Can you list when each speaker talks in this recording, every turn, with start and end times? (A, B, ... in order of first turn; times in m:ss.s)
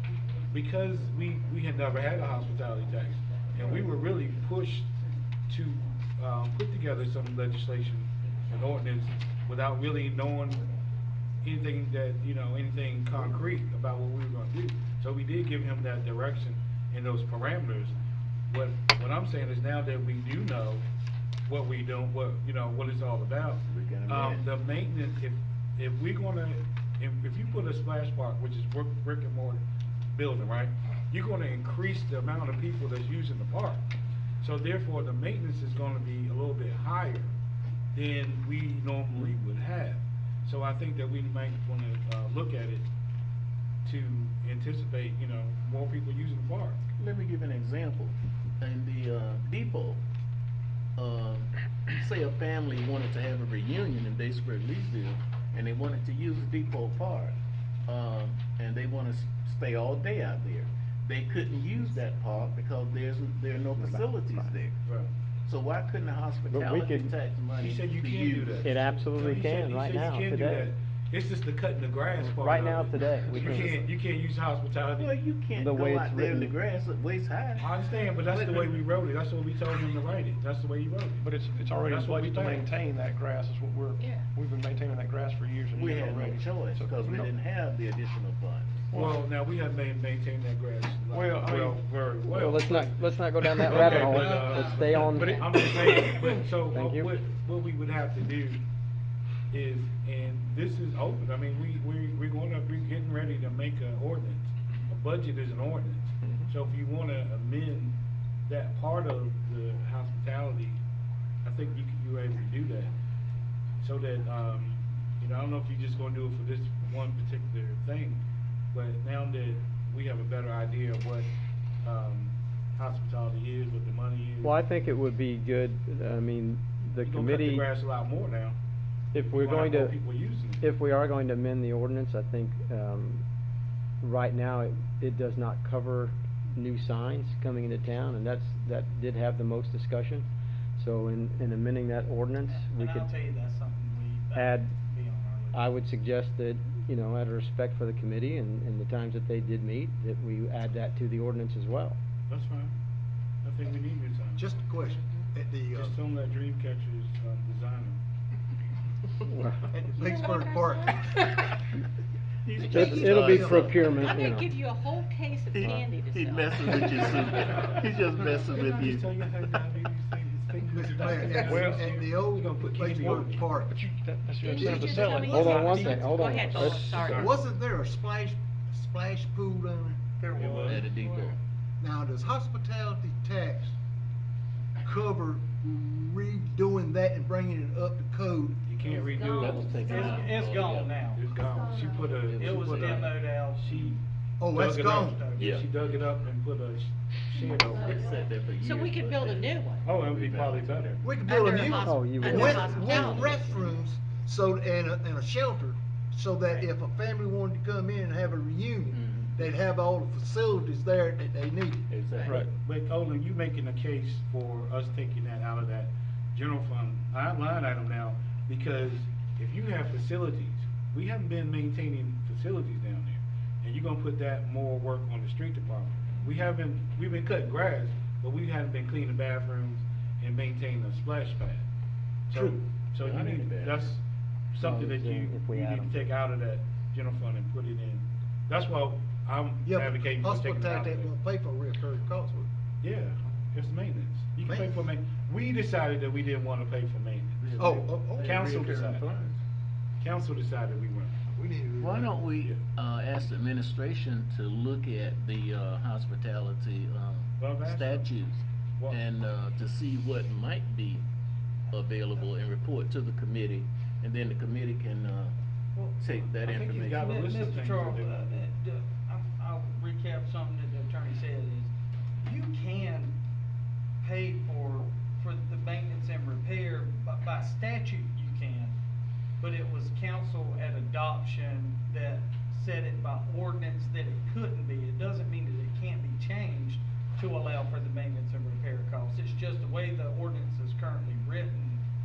0:00.5-0:04.9 A
0:05.5-0:10.6 A
0:11.4-0:18.0 A
0:18.5-0:20.8 A
0:21.5-0:33.8 A
0:23.7-0:24.5 B
0:34.4-0:37.3 A
0:37.9-0:42.9 A
0:43.8-0:46.8 A
0:47.0-0:50.0 B
0:51.0-0:57.4 B
0:57.9-1:04.8 B
1:03.8-1:04.5 C
1:05.5-1:08.7 B
1:06.5-1:07.1 C
1:07.6-1:15.2 A
1:08.6-1:10.7 C
1:12.2-1:13.9 C
1:15.0-1:17.7 B
1:15.6-1:16.5 C
1:17.6-1:21.3 A
1:21.2-1:27.3 D
1:21.8-1:22.7 A
1:25.7-1:28.8 B
1:28.9-1:29.2 D
1:28.9-1:33.0 A
1:31.1-1:31.9 D
1:32.2-1:35.4 C
1:33.4-1:36.6 D
1:33.6-1:38.6 A
1:33.9-1:35.0 E
1:36.6-1:37.2 C
1:39.5-1:50.8 A
1:51.4-1:52.9 A
1:53.8-1:58.2 A
1:58.7-2:01.3 A
2:01.8-2:04.6 A
2:04.4-2:07.7 C
2:07.0-2:08.6 A
2:09.1-2:10.0 C
2:09.2-2:10.6 A
2:10.6-2:13.2 C
2:14.0-2:23.1 C
2:22.4-2:25.8 E
2:24.3-2:24.7 C
2:25.5-2:32.0 C
2:32.3-2:32.7 A
2:33.4-2:34.5 A
2:34.4-2:36.0 F
2:35.7-2:38.0 A
2:39.3-2:39.7 C
2:39.7-2:41.5 F
2:40.1-2:40.8 G
2:42.4-2:43.9 B
2:42.6-2:44.6 C
2:42.7-2:44.1 F
2:44.0-2:46.7 G
2:45.5-2:49.1 B
2:45.6-2:47.1 C
2:47.3-2:53.5 A
2:50.7-2:53.8 F
2:51.3-2:52.0 D
2:53.0-2:57.1 D
2:54.5-2:55.6 G
2:54.6-2:55.3 F
2:55.1-2:57.0 C
2:55.3-2:57.4 A
2:56.1-2:57.2 G
2:57.0-3:00.0 F
3:00.2-3:01.3 E
3:00.3-3:00.9 A
3:00.6-3:01.4 B
3:01.8-3:03.8 F
3:04.8-3:08.6 F
3:08.7-3:10.2 A
3:09.1-3:09.5 G
3:09.2-3:11.0 B
3:09.8-3:11.3 E
3:11.1-3:14.0 A
3:12.1-3:13.2 B
3:12.3-3:13.8 E
3:14.4-3:15.2 F
3:14.5-3:18.2 A
3:15.0-3:15.6 E
3:15.4-3:15.7 B
3:17.8-3:21.1 B
3:18.6-3:19.8 G
3:19.8-3:21.1 A
3:21.0-3:31.9 F
3:21.2-3:23.1 G
3:21.8-3:23.7 C
3:28.9-3:29.4 B
3:31.9-3:32.4 B
3:32.2-3:32.5 D
3:32.3-3:51.6 A
3:52.3-4:01.1 A
3:53.0-3:53.9 B
3:54.6-3:56.1 C
3:59.6-4:02.5 F
4:02.8-4:09.1 A
4:04.4-4:04.8 F
4:07.4-4:09.4 B
4:07.6-4:08.6 F
4:10.0-4:11.2 A
4:11.3-4:12.2 F
4:11.8-4:21.1 B
4:17.4-4:18.1 A
4:21.7-4:25.4 B
4:26.0-4:27.1 B
4:26.4-4:28.5 A
4:26.7-4:31.7 E
4:32.2-4:33.2 E
4:34.0-4:38.8 E
4:39.4-4:51.8 E